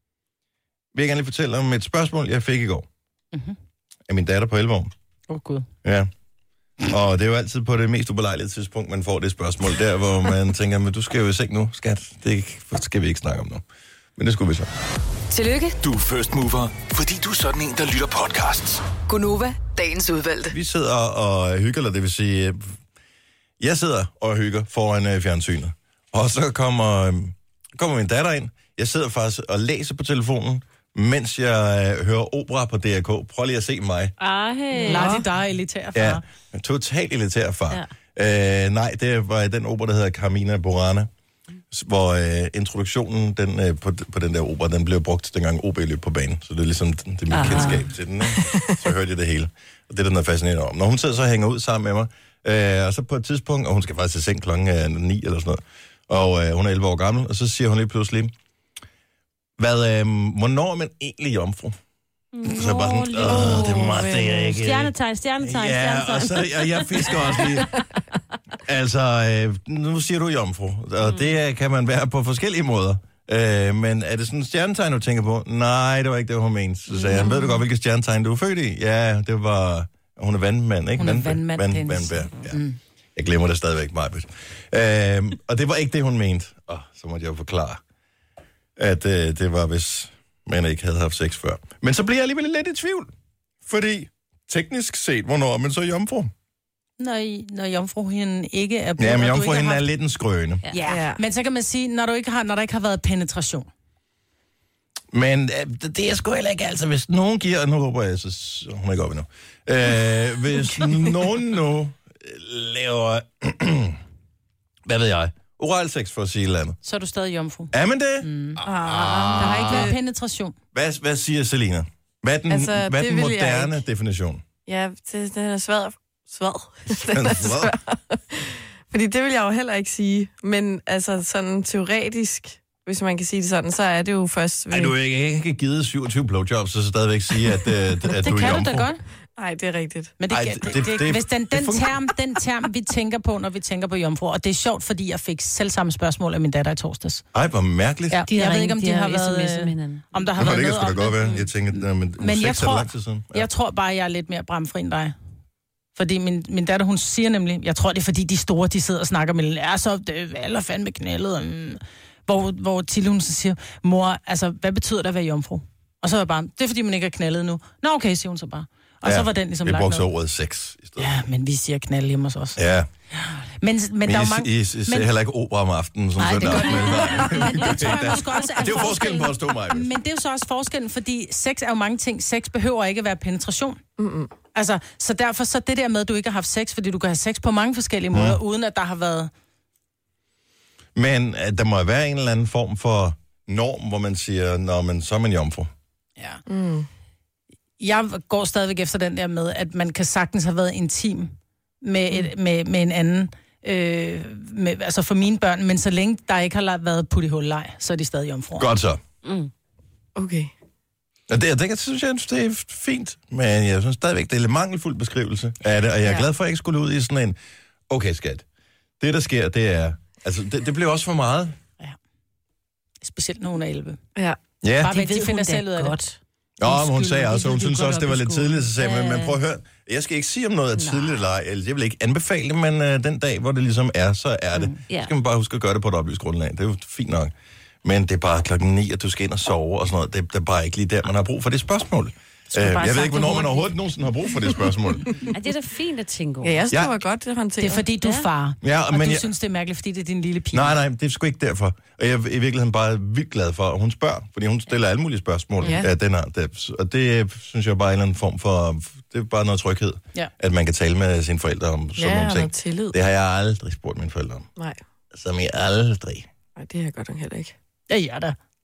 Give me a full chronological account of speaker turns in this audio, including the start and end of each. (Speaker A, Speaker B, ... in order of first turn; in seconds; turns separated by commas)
Speaker A: 0.9-2.9, Speaker A: 4.1-4.9, Speaker B: 5.3-5.7, Speaker A: 5.8-6.1, Speaker A: 6.9-13.6, Speaker A: 14.2-14.7, Speaker C: 15.3-15.8, Speaker D: 15.8-18.9, Speaker C: 19.0-20.5, Speaker A: 20.5-22.7, Speaker A: 23.6-34.1, Speaker E: 34.2-35.2, Speaker B: 34.8-36.2, Speaker F: 34.8-35.2, Speaker A: 36.0-41.1, Speaker A: 41.7-58.3, Speaker E: 47.3-47.9, Speaker A: 59.6-61.8, Speaker E: 62.3-67.6, Speaker A: 62.4-67.7, Speaker F: 63.2-64.6, Speaker A: 68.6-82.6, Speaker E: 71.0-71.3, Speaker F: 77.0-77.6, Speaker B: 81.0-82.8, Speaker A: 83.2-87.8, Speaker A: 88.8-93.1, Speaker A: 93.6-96.3, Speaker B: 97.0-99.8, Speaker A: 99.0-100.6, Speaker B: 100.7-103.7, Speaker F: 100.8-101.2, Speaker A: 105.1-114.0, Speaker A: 114.9-116.8, Speaker B: 116.8-118.6, Speaker A: 117.7-119.9, Speaker F: 118.6-120.0, Speaker B: 119.4-120.5, Speaker A: 120.7-124.4, Speaker F: 122.5-123.8, Speaker F: 124.7-134.9, Speaker A: 127.0-127.8, Speaker A: 134.7-138.9, Speaker B: 138.2-139.0, Speaker F: 139.4-140.1, Speaker B: 140.2-147.2, Speaker A: 140.3-142.0, Speaker A: 147.3-148.2, Speaker B: 148.1-155.1, Speaker E: 148.3-150.1, Speaker A: 150.4-153.5, Speaker B: 155.9-170.1, Speaker A: 169.0-171.1, Speaker B: 171.0-172.6, Speaker A: 172.6-172.9, Speaker B: 173.2-175.1, Speaker A: 174.0-179.9, Speaker E: 176.2-178.2, Speaker B: 176.2-183.8, Speaker F: 184.0-184.3, Speaker B: 184.5-189.3, Speaker A: 188.1-188.4, Speaker A: 190.9-195.7, Speaker F: 196.5-196.9, Speaker B: 197.8-208.7, Speaker A: 208.6-209.0, Speaker E: 209.2-209.5, Speaker F: 210.2-210.5, Speaker A: 211.3-217.4, Speaker A: 217.9-218.4, Speaker A: 219.0-221.5, Speaker B: 223.0-224.0, Speaker A: 224.6-224.9, Speaker B: 224.8-226.0, Speaker E: 224.8-229.4, Speaker A: 226.6-237.3, Speaker E: 230.8-231.2, Speaker A: 237.8-245.1, Speaker B: 242.5-243.6, Speaker E: 245.3-246.7, Speaker F: 246.4-247.9, Speaker B: 247.6-250.8, Speaker E: 248.0-248.3, Speaker A: 248.6-249.3, Speaker A: 250.5-264.5, Speaker F: 255.6-255.9, Speaker F: 262.0-263.0, Speaker A: 265.1-266.3, Speaker F: 266.6-267.5, Speaker B: 267.9-268.4